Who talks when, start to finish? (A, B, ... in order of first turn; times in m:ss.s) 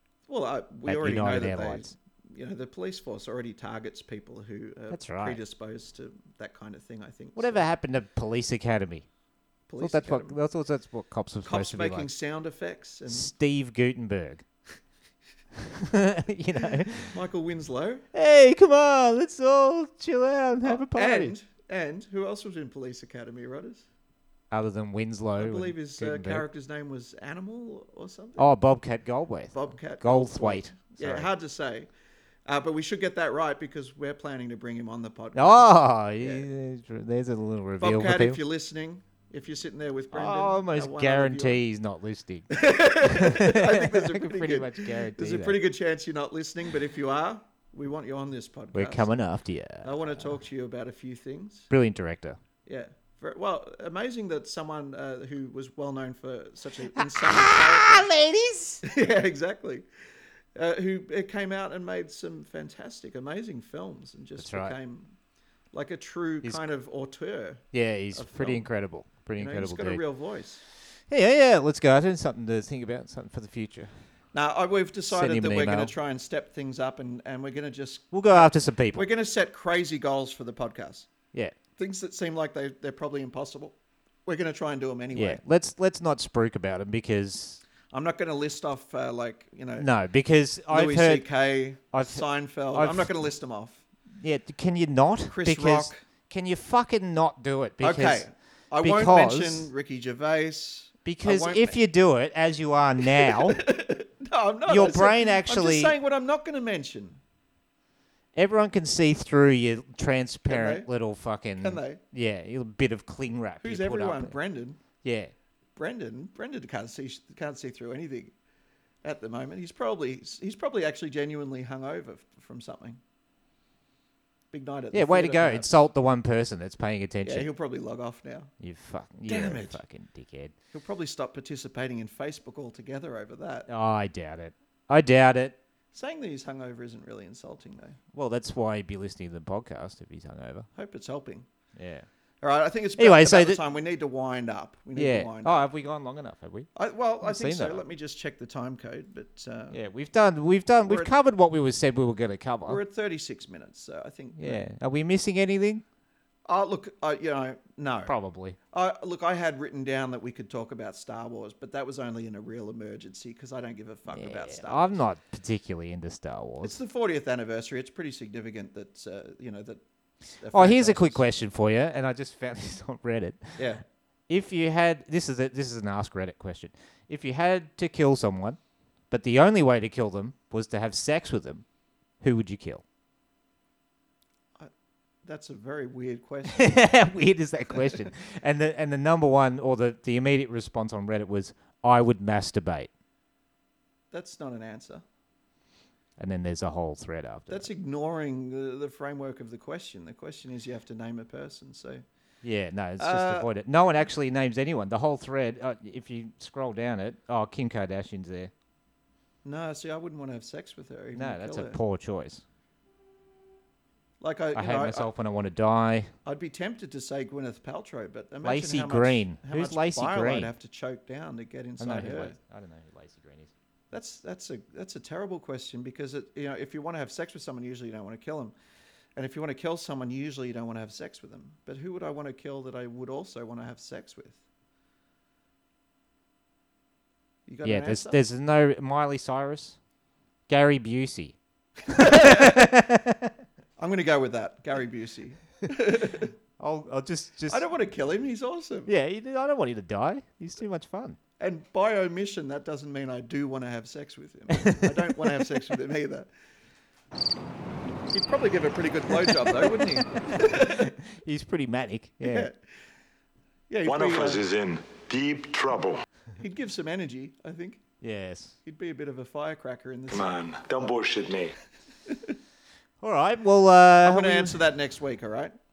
0:00.3-0:07.7 A
0:00.9-0:01.9 B
0:04.9-0:05.4 B
0:07.4-0:09.1 B
0:09.7-0:10.4 A
0:09.8-0:12.1 B
0:11.4-0:13.3 A
0:13.1-0:14.4 B
0:15.6-0:17.2 B
0:17.1-0:18.0 A
0:18.1-0:21.4 B
0:20.6-0:23.8 A
0:24.5-0:26.4 B
0:25.4-0:28.5 A
0:28.4-0:31.3 B
0:29.5-0:31.9 A
0:32.5-0:36.5 A
0:35.4-0:38.4 B
0:37.8-0:41.6 A
0:40.1-0:45.6 B
0:42.5-0:49.1 A
0:48.7-0:50.4 B
0:49.8-0:51.7 A
0:51.7-0:52.4 B
0:52.6-0:58.1 A
0:57.0-0:58.8 B
0:58.8-0:59.9 A
1:00.6-1:05.2 A
1:04.4-1:04.8 B
1:05.7-1:08.7 A
1:07.7-1:10.0 B
1:09.4-1:10.6 A
1:11.1-1:13.9 B
1:14.3-1:21.1 A
1:15.1-1:15.9 B
1:18.1-1:19.1 B
1:21.8-1:25.4 A
1:25.1-1:27.6 B
1:27.9-1:29.9 A
1:29.8-1:31.3 B
1:30.7-1:33.8 A
1:31.9-1:33.1 B
1:34.2-1:38.3 B
1:35.3-1:36.0 A
1:37.8-1:41.8 A
1:38.8-1:39.7 B
1:41.0-1:43.6 B
1:43.0-1:47.2 A
1:44.7-1:45.9 B
1:48.4-1:54.4 B
1:50.5-1:50.9 A
1:51.6-1:52.0 A
1:53.6-1:54.8 A
1:55.0-1:55.3 B
1:55.8-1:58.3 A
1:59.0-2:03.0 A
2:04.5-2:05.7 A
2:04.9-2:07.5 B
2:07.2-2:08.5 A
2:08.6-2:10.6 B
2:09.3-2:09.8 A
2:10.7-2:13.7 A
2:13.7-2:15.6 B
2:15.9-2:18.0 A
2:18.1-2:20.7 B
2:20.8-2:21.5 A
2:21.8-2:22.1 B
2:22.4-2:25.6 A
2:23.0-2:23.6 B
2:25.0-2:27.8 B
2:26.8-2:29.8 A
2:29.7-2:32.8 B
2:30.8-2:31.1 A
2:32.7-2:34.6 A
2:34.4-2:35.8 B
2:36.5-2:38.1 A
2:38.1-2:38.6 B
2:38.7-2:45.0 A
2:44.1-2:46.8 B
2:46.6-2:51.3 A
2:50.5-2:53.7 B
2:53.6-2:53.8 A
2:54.3-2:58.6 B
2:59.1-3:01.6 B
3:02.2-3:02.8 B
3:05.2-3:06.8 A
3:06.5-3:12.9 B
3:14.1-3:15.0 A
3:16.2-3:17.7 B
3:17.5-3:22.0 A
3:22.4-3:28.5 B
3:23.0-3:23.5 A
3:29.4-3:31.8 A
3:31.1-3:32.4 B
3:34.2-3:35.1 A
3:34.6-3:36.1 B
3:36.2-3:42.4 A
3:38.4-3:40.5 B
3:41.8-3:43.5 B
3:43.9-3:48.6 A
3:49.2-3:54.4 A
3:57.5-3:58.2 A
3:57.6-3:59.8 B
4:00.5-4:01.4 B
4:01.9-4:02.7 A
4:01.9-4:03.4 B
4:03.8-4:06.3 A
4:06.6-4:07.7 B
4:07.5-4:08.9 A
4:08.9-4:11.2 B
4:11.4-4:16.3 A
4:14.5-4:15.8 B
4:18.1-4:20.9 A
4:19.1-4:22.5 B
4:22.2-4:22.6 A
4:23.7-4:24.4 A
4:23.8-4:26.0 C
4:26.4-4:27.8 A
4:28.0-4:28.6 B
4:28.6-4:30.4 A
4:30.1-4:31.6 C
4:32.1-4:32.4 A
4:33.0-4:34.6 B
4:34.0-4:35.6 A